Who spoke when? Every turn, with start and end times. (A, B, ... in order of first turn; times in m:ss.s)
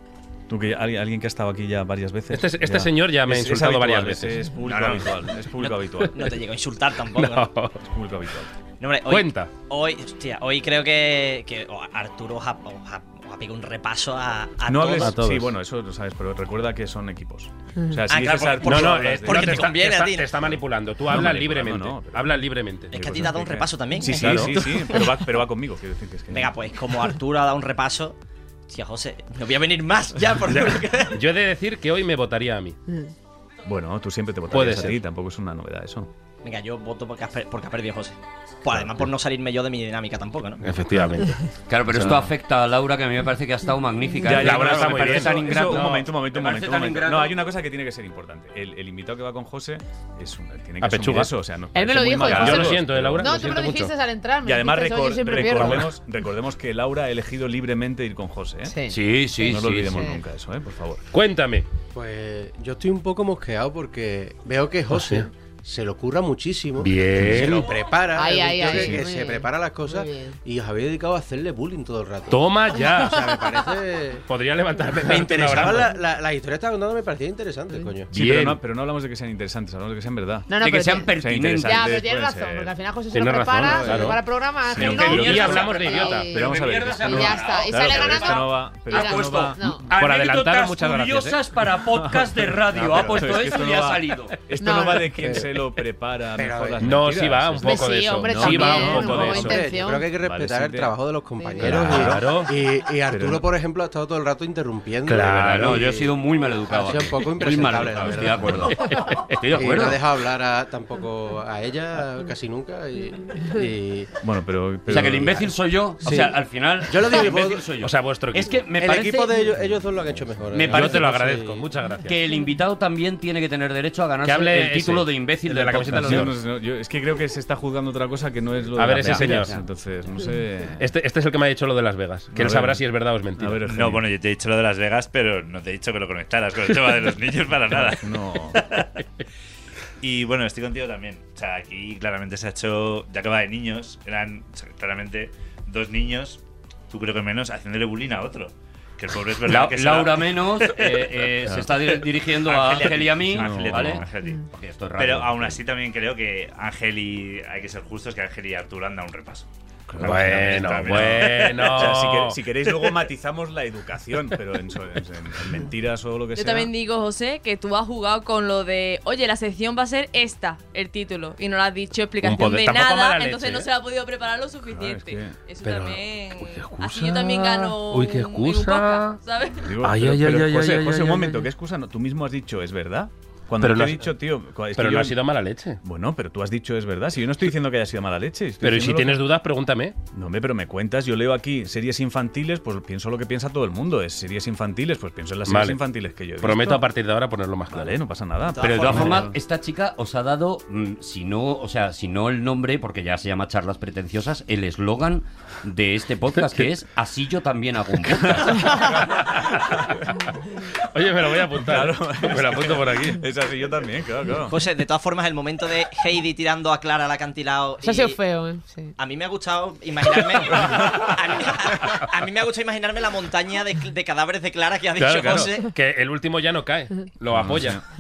0:00.5-0:06.2 A
0:02.3-0:04.4 B
0:04.7-0:07.5 C
0:07.1-0:07.8 B
0:07.8-0:08.5 A
0:08.8-0:15.2 C
0:09.0-0:09.5 B
0:14.7-0:19.7 A
0:15.0-0:15.5 B
0:18.1-0:20.3 C
0:18.6-0:23.0 B
0:20.4-0:22.3 A
0:22.9-0:24.9 C
0:22.9-0:26.5 A
0:24.2-0:24.6 B
0:26.3-0:28.2 C
0:28.7-0:31.2 C
0:30.5-0:32.8 B
0:33.6-0:36.1 A
0:34.5-0:35.0 B
0:36.4-0:41.0 C
0:40.6-0:41.4 B
0:41.7-0:47.4 D
0:41.9-0:42.3 A
0:44.2-0:53.5 A
0:44.3-0:46.1 B
0:50.8-0:51.3 B
0:51.7-0:55.9 E
0:52.3-0:52.7 D
0:52.3-0:53.9 B
0:54.4-0:58.8 A
0:55.4-0:55.9 B
0:58.7-0:59.0 E
0:58.9-1:00.1 D
0:59.4-1:01.0 A
0:59.9-1:00.2 E
1:01.1-1:01.7 B
1:01.9-1:14.2 F
1:04.9-1:05.3 B
1:06.8-1:07.8 B
1:08.2-1:10.4 E
1:08.7-1:09.0 A
1:12.3-1:13.6 B
1:14.3-1:15.9 B
1:14.9-1:18.1 F
1:18.1-1:22.8 A
1:18.1-1:18.6 B
1:20.5-1:29.9 E
1:20.6-1:22.0 D
1:23.1-1:24.2 B
1:23.7-1:25.8 A
1:24.8-1:34.3 D
1:24.9-1:26.3 B
1:26.3-1:29.8 A
1:30.0-1:31.4 B
1:31.9-1:39.5 A
1:34.6-1:35.4 E
1:35.1-1:35.5 F
1:36.4-1:37.0 F
1:36.8-1:39.6 B
1:37.6-1:40.1 E
1:39.0-1:49.0 F
1:40.2-1:40.9 A
1:41.4-1:41.8 E
1:41.6-1:42.4 A
1:41.7-1:42.5 B
1:43.1-1:43.5 A
1:45.1-1:45.4 B
1:45.1-1:50.0 D
1:49.5-1:54.2 F
1:54.2-1:55.5 A
1:54.9-1:59.4 D
1:56.0-1:56.4 F
1:56.9-1:57.7 F
1:57.8-1:58.6 B
1:58.7-2:01.7 F
2:00.5-2:01.0 D
2:00.6-2:02.2 B
2:02.1-2:06.3 D
2:04.2-2:06.3 B
2:05.7-2:10.9 A
2:08.8-2:09.6 B
2:09.0-2:09.6 D
2:10.8-2:13.7 B
2:12.3-2:12.8 A
2:13.4-2:14.1 A
2:13.7-2:18.8 G
2:17.7-2:18.6 A
2:20.0-2:31.0 G
2:29.5-2:35.6 D
2:31.4-2:31.8 A
2:31.9-2:39.5 G
2:32.9-2:34.1 A
2:39.9-2:46.7 A
2:40.0-2:41.8 G
2:40.0-2:42.4 B
2:46.4-2:59.8 H
2:52.2-2:53.7 B
2:54.6-2:55.4 A
2:55.6-2:59.2 B
2:59.6-3:05.2 A
2:59.8-3:01.4 B
3:03.6-3:04.1 B
3:04.8-3:05.8 B
3:05.8-3:09.3 A
3:08.6-3:10.0 B
3:10.1-3:16.8 A
3:15.5-3:15.8 B
3:16.4-3:18.0 B
3:17.7-3:19.3 A
3:18.6-3:19.1 C
3:18.6-3:29.0 D
3:26.4-3:26.7 B
3:28.2-3:30.1 B
3:28.5-3:29.8 A
3:30.8-3:33.2 B
3:31.6-3:34.6 A
3:34.5-3:38.2 C
3:37.8-3:38.9 E
3:39.0-3:45.7 C
3:40.6-3:41.1 B
3:45.0-3:47.8 B
3:47.3-3:47.8 A